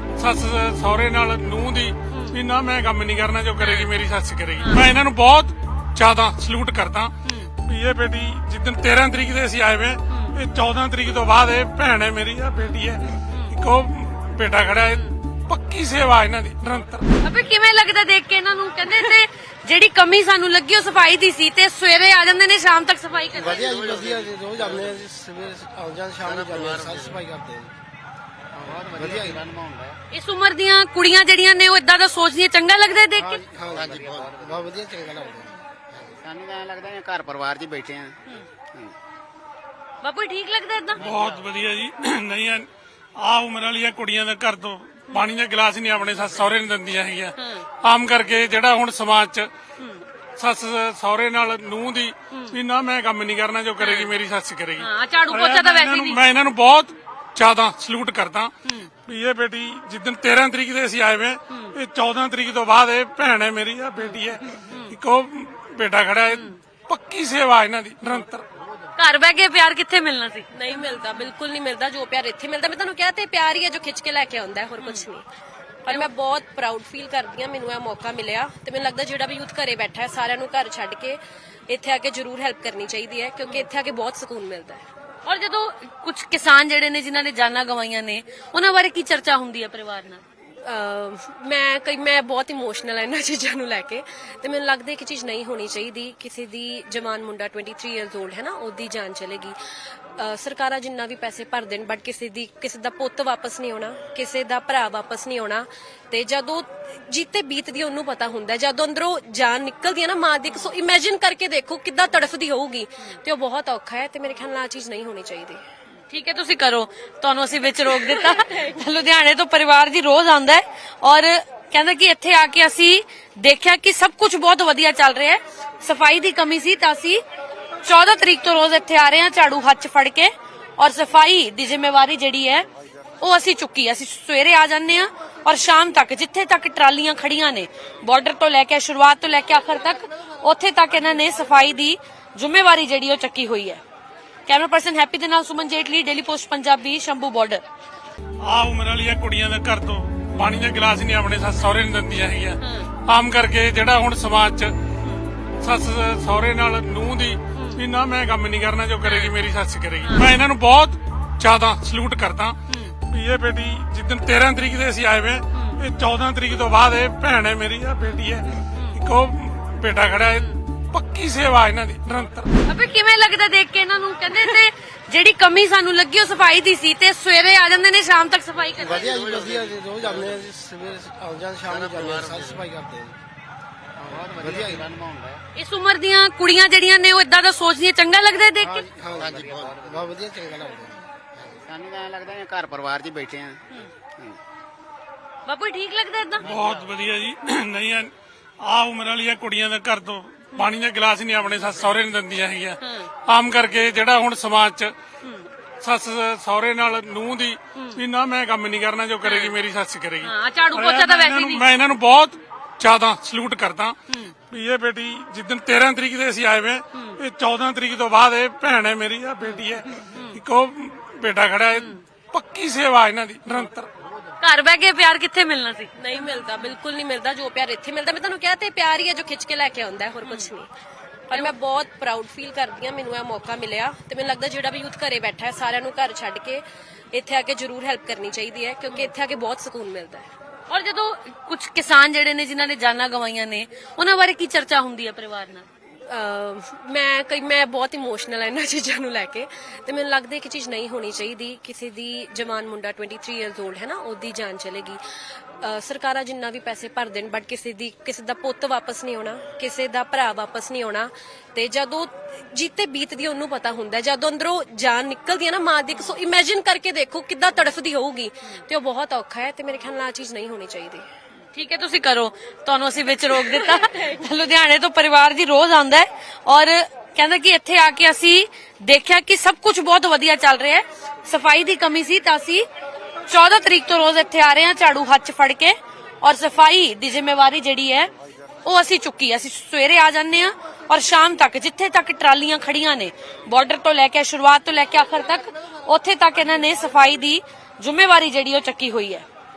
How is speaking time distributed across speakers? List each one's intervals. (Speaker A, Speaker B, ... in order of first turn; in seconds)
Speaker A: 0.2-17.1, 41.0-49.5, 50.4-58.5, 59.0-68.5, 148.4-154.7, 155.6-172.5, 196.4-204.9, 205.8-214.0, 214.5-223.9
Speaker B: 2.1-2.4, 3.6-3.9, 4.6-4.9, 13.3-13.5, 14.9-15.2, 17.2-24.1, 30.1-33.4, 40.0-41.0, 47.4-47.6, 52.3-52.5, 53.8-54.1, 54.8-56.2, 58.6-58.9, 64.0-64.9, 66.3-66.6, 69.0-70.5, 74.8-75.0, 85.2-90.2, 116.1-127.2, 127.8-132.7, 133.2-143.8, 144.5-147.6, 152.6-152.9, 157.5-157.8, 159.0-159.3, 160.0-160.3, 162.7-162.9, 165.5-165.8, 168.7-169.0, 172.7-179.2, 185.5-188.9, 195.4-196.5, 202.8-203.1, 205.2-205.5, 207.7-208.0, 209.2-209.5, 210.2-211.7, 214.1-214.3, 216.9-217.2, 219.4-220.4, 221.7-222.0, 224.4-225.9, 240.7-245.7, 271.5-282.7, 283.3-288.1, 288.6-299.2
Speaker C: 23.3-27.8, 28.5-29.4, 33.2-36.1, 178.8-183.2, 184.0-184.9, 188.6-191.6
Speaker D: 23.5-24.9, 26.3-27.0, 28.6-30.0, 33.5-34.7, 36.1-38.2, 41.1-41.4, 178.8-180.3, 181.7-182.6, 184.1-185.4, 189.1-190.1, 191.6-194.4, 196.4-197.1
Speaker E: 70.5-75.2, 75.8-84.8, 90.6-115.6, 117.7-118.7, 226.0-230.7, 231.3-240.3, 246.1-271.1, 273.3-274.1